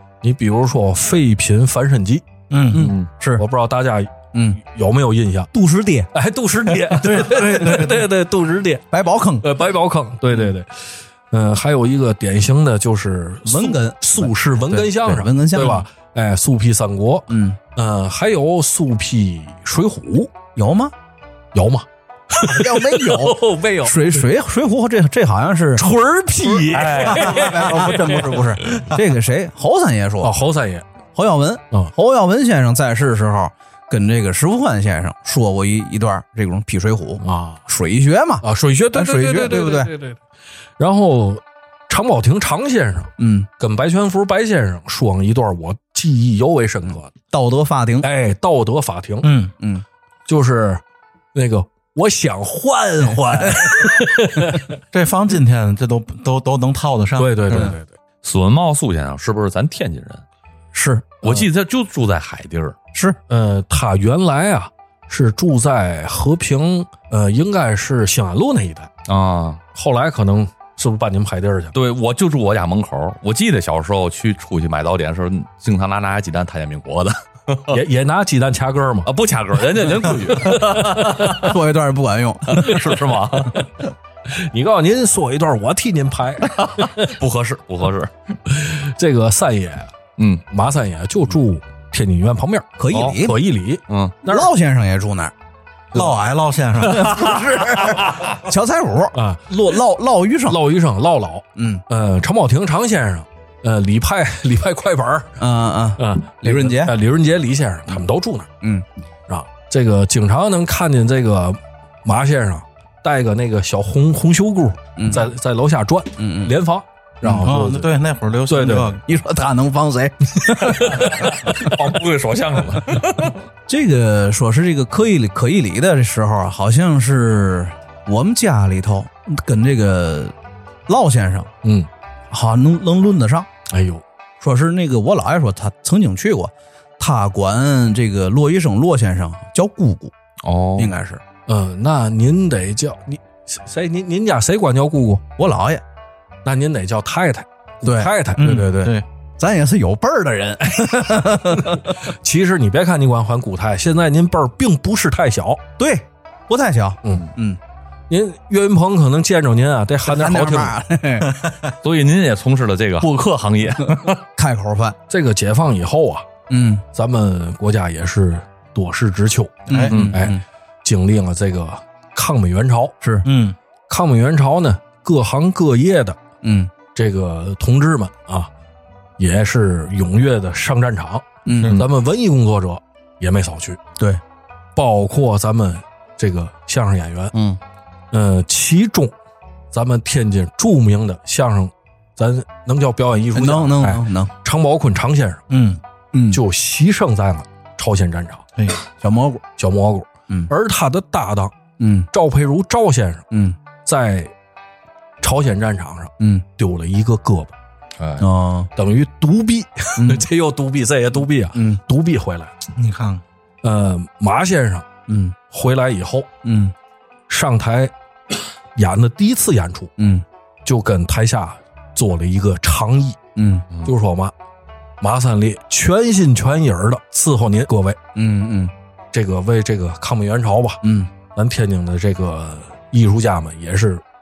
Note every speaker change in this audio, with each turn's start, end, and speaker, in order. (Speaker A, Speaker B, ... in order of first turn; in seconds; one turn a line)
Speaker A: 0.2-2.2
Speaker B: 2.5-2.9
Speaker C: 2.7-3.4
Speaker D: 2.8-3.1
Speaker A: 3.4-5.5
Speaker C: 4.3-4.6
Speaker C: 5.5-6.1
Speaker A: 6.1-8.9
Speaker B: 7.0-8.1
Speaker C: 8.9-9.5
Speaker A: 9.4-20.3
Speaker C: 13.4-15.9
Speaker C: 17.3-17.6
Speaker C: 20.6-20.9
Speaker A: 21.5-24.2
Speaker C: 22.3-25.9
Speaker A: 25.8-28.9
Speaker C: 26.6-30.3
Speaker D: 26.7-27.4
Speaker B: 27.0-28.5
Speaker A: 30.2-30.9
Speaker C: 31.1-39.9
Speaker A: 37.2-37.6
Speaker A: 38.4-40.2
Speaker A: 40.8-47.1
Speaker C: 43.2-43.5
Speaker C: 47.3-48.1
Speaker A: 48.0-49.3
Speaker B: 49.2-49.5
Speaker C: 49.6-49.8
Speaker A: 50.3-50.8
Speaker A: 51.3-54.8
Speaker B: 54.9-57.8
Speaker A: 57.2-57.9
Speaker D: 58.2-60.2
Speaker C: 60.7-61.2
Speaker D: 61.2-62.8
Speaker A: 63.3-68.9
Speaker D: 69.1-69.6
Speaker A: 69.8-71.8
Speaker D: 71.7-77.8
Speaker A: 77.7-79.1
Speaker D: 79.0-81.6
Speaker A: 80.3-81.4
Speaker C: 81.1-83.0
Speaker D: 82.5-83.7
Speaker A: 84.3-87.1
Speaker D: 86.5-88.3
Speaker A: 88.5-89.9
Speaker D: 90.2-90.4
Speaker A: 90.5-94.5
Speaker C: 92.8-93.4
Speaker D: 92.9-93.2
Speaker D: 93.9-94.2
Speaker C: 94.2-95.3
Speaker B: 95.9-97.3
Speaker C: 96.8-100.6
Speaker A: 99.2-99.5
Speaker A: 100.5-105.3
Speaker C: 101.6-101.8
Speaker C: 105.4-107.0
Speaker A: 106.0-108.5
Speaker A: 109.3-117.9
Speaker C: 115.0-115.3
Speaker C: 116.2-116.5
Speaker C: 117.2-117.5
Speaker B: 117.4-119.0
Speaker A: 118.5-119.0
Speaker C: 119.0-121.7
Speaker D: 120.7-123.4
Speaker C: 123.7-130.3
Speaker C: 130.9-131.5
Speaker A: 131.6-131.9
Speaker C: 132.3-133.5
Speaker A: 133.7-134.0
Speaker C: 134.4-140.1
Speaker D: 140.4-140.9
Speaker C: 140.8-141.2
Speaker A: 141.5-145.2
Speaker C: 145.4-145.8
Speaker A: 146.4-148.4
Speaker C: 147.8-151.9
Speaker B: 148.4-149.1
Speaker A: 150.7-155.6
Speaker C: 155.8-157.6
Speaker A: 157.0-157.3
Speaker A: 158.1-160.8
Speaker C: 160.1-161.3
Speaker D: 161.8-164.2
Speaker C: 163.8-165.0
Speaker A: 165.1-166.3
Speaker C: 166.5-166.8
Speaker A: 166.9-173.0
Speaker C: 169.7-170.4
Speaker D: 169.9-170.2
Speaker C: 173.0-173.3
Speaker B: 173.2-173.6
Speaker A: 173.9-176.2
Speaker C: 176.4-176.7
Speaker A: 176.9-178.5
Speaker A: 179.2-183.8
Speaker C: 181.5-181.8
Speaker B: 181.6-181.8
Speaker A: 184.8-187.3
Speaker D: 187.3-187.6
Speaker A: 188.1-189.1
Speaker A: 189.7-195.4
Speaker C: 193.3-194.3
Speaker B: 195.5-195.8
Speaker C: 196.1-196.4
Speaker A: 196.3-198.4
Speaker C: 199.0-199.4
Speaker A: 199.6-201.6
Speaker C: 201.8-202.1
Speaker A: 202.1-203.3
Speaker C: 203.3-203.6
Speaker A: 203.8-204.3
Speaker A: 205.2-207.5
Speaker C: 206.2-206.4
Speaker D: 208.0-208.2
Speaker C: 208.2-208.7
Speaker A: 208.8-212.6
Speaker C: 210.0-210.3
Speaker C: 211.6-211.8
Speaker B: 212.8-213.2
Speaker A: 213.6-214.9
Speaker C: 215.1-215.3
Speaker A: 215.5-216.3
Speaker C: 216.4-216.7
Speaker A: 217.3-217.9
Speaker A: 218.8-219.9
Speaker C: 220.0-220.2
Speaker A: 220.7-223.2
Speaker C: 223.4-223.7
Speaker A: 223.8-224.3
Speaker A: 225.0-228.0
Speaker C: 228.2-228.7
Speaker A: 229.1-230.8
Speaker C: 230.8-231.1
Speaker A: 231.3-234.0